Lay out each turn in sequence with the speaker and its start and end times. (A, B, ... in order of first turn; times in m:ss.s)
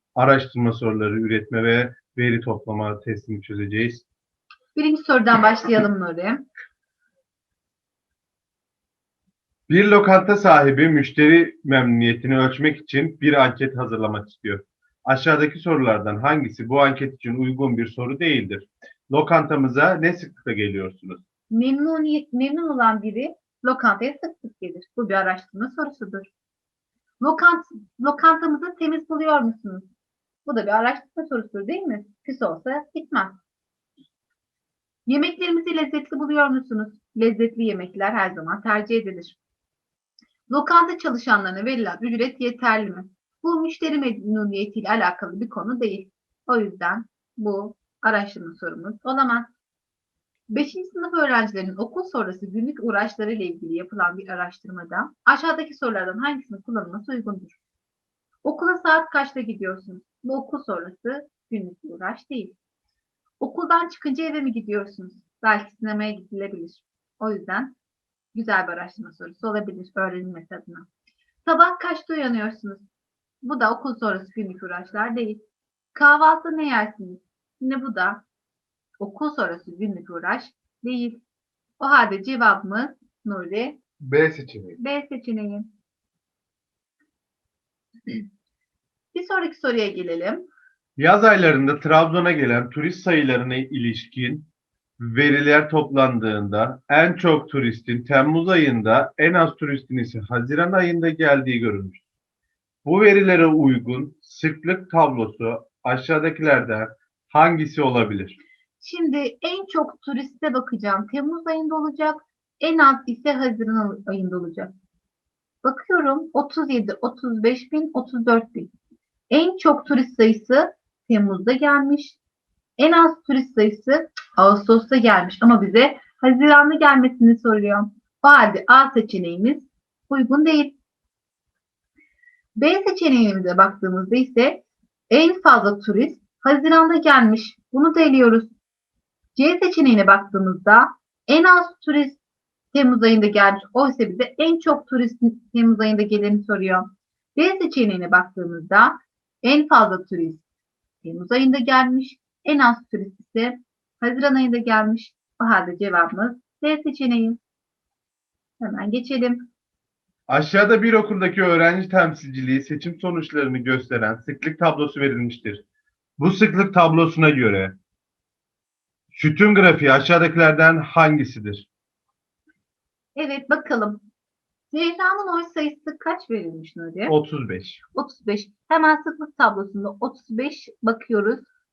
0:00.2-0:04.0 A
0:04.8-0:06.4 B
0:09.7-0:21.2 A
0:21.5-0:26.3 B
0:27.2-0:29.9 B
0:30.4-0:33.4 B
0:35.1-0:39.4 B
0:40.5-0:49.5 B
0:50.5-0:57.6 B
0:58.4-1:02.6 B
1:03.4-1:07.8 B
1:08.3-1:10.9 B
1:11.4-1:12.9 B
1:13.4-1:15.4 B
1:15.9-1:18.2 B
1:19.0-1:21.2 B
1:21.8-1:23.8 B
1:24.0-1:24.8 A
1:24.8-1:25.7 B
1:29.1-1:30.5 B
1:31.0-1:42.0 A
1:42.8-1:48.4 A
1:48.8-1:54.7 B
1:55.6-1:58.7 B
1:59.3-2:02.2 B
2:02.8-2:10.8 B
2:12.6-2:18.5 B
2:19.4-2:22.2 B
2:22.7-2:30.4 B
2:31.0-2:37.4 B
2:38.6-2:39.5 B
2:40.3-2:45.6 A
2:46.2-2:47.8 A
2:49.1-2:51.7 A
2:53.2-2:54.0 B
2:54.7-2:57.2 B
2:57.1-2:57.8 A
2:57.9-3:01.5 B